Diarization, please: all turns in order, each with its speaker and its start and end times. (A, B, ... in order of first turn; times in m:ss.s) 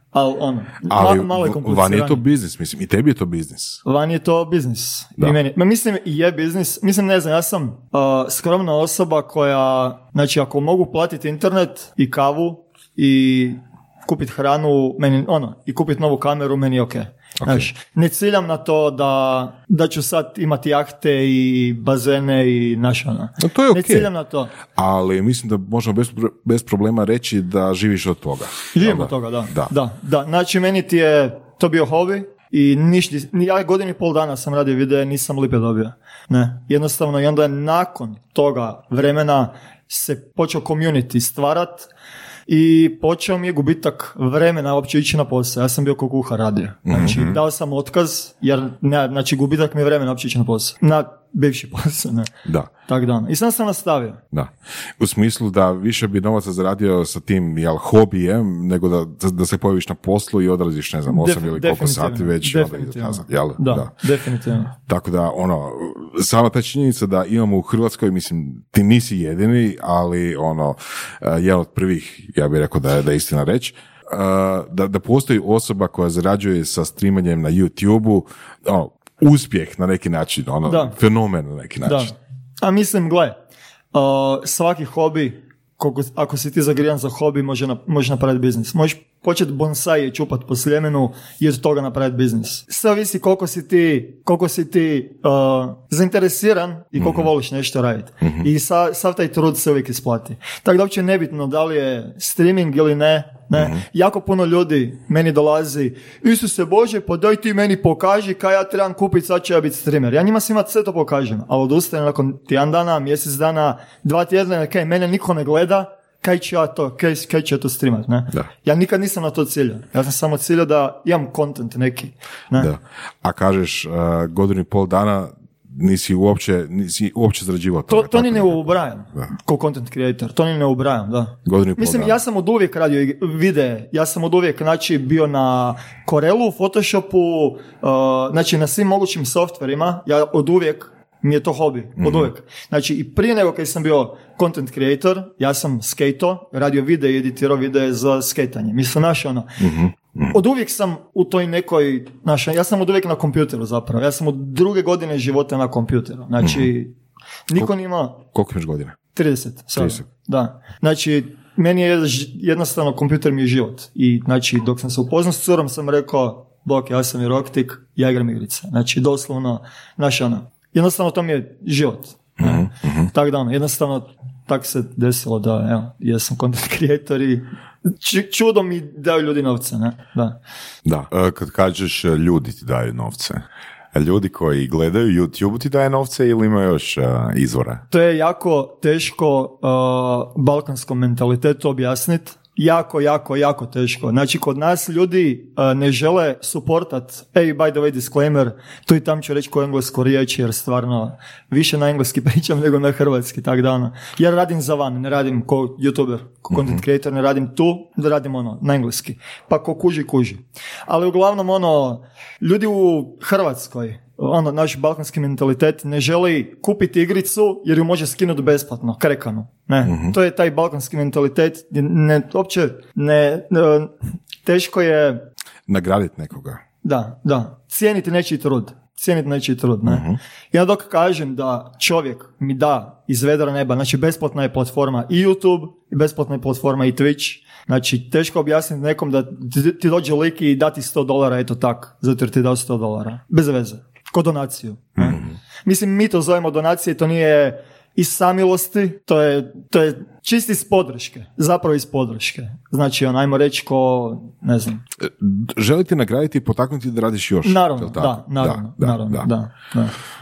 0:00.1-0:02.2 A
0:00.9-0:03.8 B
0:03.8-0:24.5 A
0:17.4-0:17.7 B
0:23.4-0:24.1 B
0:24.7-0:29.7 B
0:28.7-0:41.9 A
0:42.5-0:52.3 A
0:46.9-0:47.2 B
0:47.0-0:47.4 C
0:52.4-0:52.7 B
0:52.9-0:54.2 A
0:54.3-1:03.9 B
1:01.1-1:04.7 A
1:04.9-1:22.1 B
1:20.7-1:21.0 A
1:21.8-1:23.4 A
1:23.9-2:02.7 A
1:37.0-1:37.3 B
1:38.2-1:38.5 B
1:43.6-1:43.8 B
2:02.6-2:08.6 B
2:07.9-2:29.6 A
2:11.4-2:12.2 B
2:22.0-2:22.3 B
2:29.6-2:30.4 B
2:30.3-2:36.9 A
2:36.4-2:36.7 B
2:37.5-2:38.2 A
2:38.3-2:39.0 B
2:39.1-3:00.4 A
2:39.8-2:40.0 B
2:52.4-2:53.1 B
3:01.1-3:03.4 C
3:03.9-3:07.8 C
3:07.9-3:43.9 A
3:26.5-3:26.8 B
3:39.8-3:40.2 B
3:44.4-3:45.2 A
3:45.7-3:46.6 B
3:46.8-4:14.8 A
3:49.8-3:50.2 B
4:05.0-4:05.3 B
4:15.0-4:19.3 B
4:17.4-4:20.0 A